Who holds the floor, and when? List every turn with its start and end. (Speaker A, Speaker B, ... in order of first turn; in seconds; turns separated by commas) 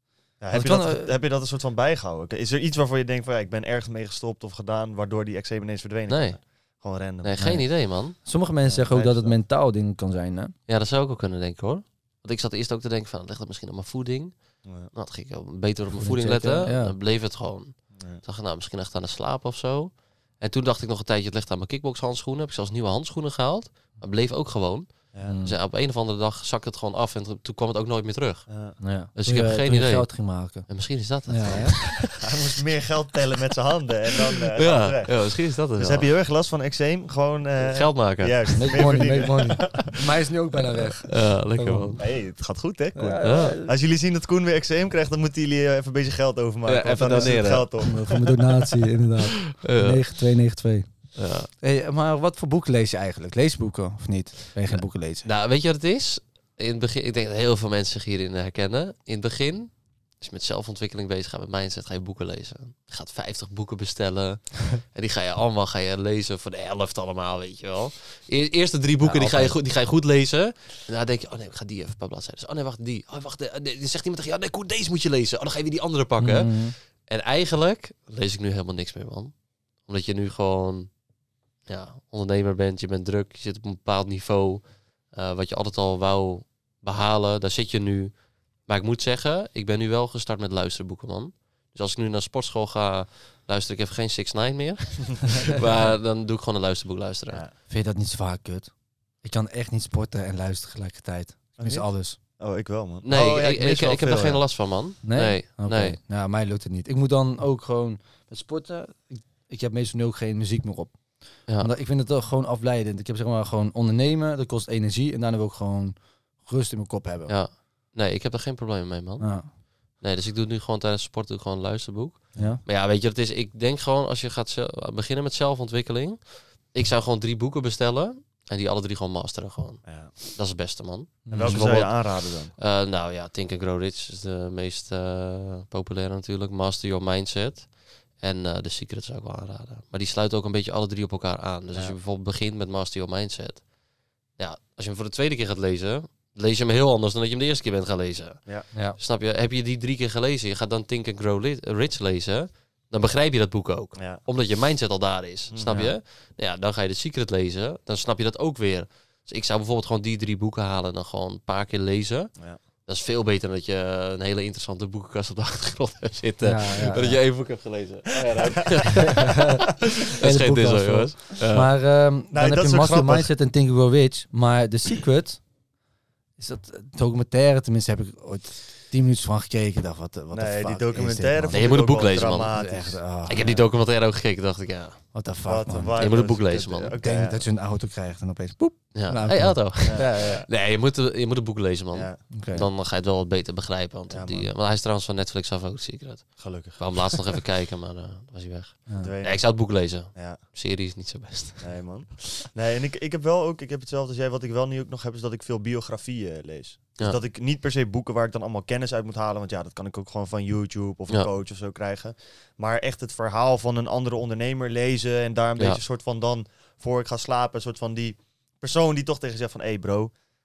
Speaker A: 0.4-7.5, Speaker B: 0.5-1.1, Speaker C: 6.1-6.4, Speaker C: 7.2-8.2, Speaker B: 7.4-10.5, Speaker A: 8.6-9.3, Speaker C: 10.7-28.5, Speaker A: 14.6-14.9, Speaker B: 15.9-16.9, Speaker A: 17.9-18.2, Speaker B: 25.2-25.6, Speaker A: 28.5-28.8, Speaker B: 28.8-30.7, Speaker C: 29.1-32.2, Speaker B: 31.2-31.9, Speaker A: 32.1-40.0, Speaker C: 34.6-36.1, Speaker C: 37.6-38.9, Speaker B: 38.5-42.0, Speaker C: 41.0-42.1, Speaker A: 42.0-48.2, Speaker B: 43.0-43.7, Speaker C: 43.2-43.6, Speaker C: 46.6-47.9, Speaker B: 47.2-55.3, Speaker C: 49.6-50.0, Speaker C: 51.1-51.5, Speaker C: 54.7-79.3, Speaker B: 69.0-69.5, Speaker A: 69.1-69.4, Speaker B: 76.2-76.7, Speaker C: 79.8-80.9, Speaker C: 81.7-97.4, Speaker A: 97.3-97.5, Speaker B: 97.7-102.2, Speaker A: 101.6-104.6, Speaker C: 103.0-106.0, Speaker B: 105.0-117.3, Speaker C: 117.3-143.7, Speaker B: 119.2-119.5, Speaker B: 122.3-122.6, Speaker A: 129.8-130.2, Speaker B: 131.3-131.6, Speaker A: 131.3-132.5, Speaker C: 144.4-171.7, Speaker A: 153.9-154.2, Speaker A: 155.5-155.9, Speaker B: 155.7-155.9, Speaker B: 166.4-167.3, Speaker B: 169.1-169.4, Speaker B: 170.2-175.4, Speaker A: 172.3-173.3, Speaker B: 176.4-181.7, Speaker A: 180.3-183.7, Speaker C: 181.5-182.7, Speaker B: 182.5-183.4, Speaker C: 183.3-185.0, Speaker B: 185.1-186.0, Speaker A: 185.4-187.4, Speaker C: 185.9-187.0, Speaker B: 187.0-190.4, Speaker C: 188.9-201.8, Speaker A: 189.9-190.4, Speaker A: 191.9-192.2, Speaker B: 192.3-192.7, Speaker A: 194.1-194.5, Speaker A: 196.4-197.4, Speaker A: 199.0-200.4, Speaker A: 201.6-220.2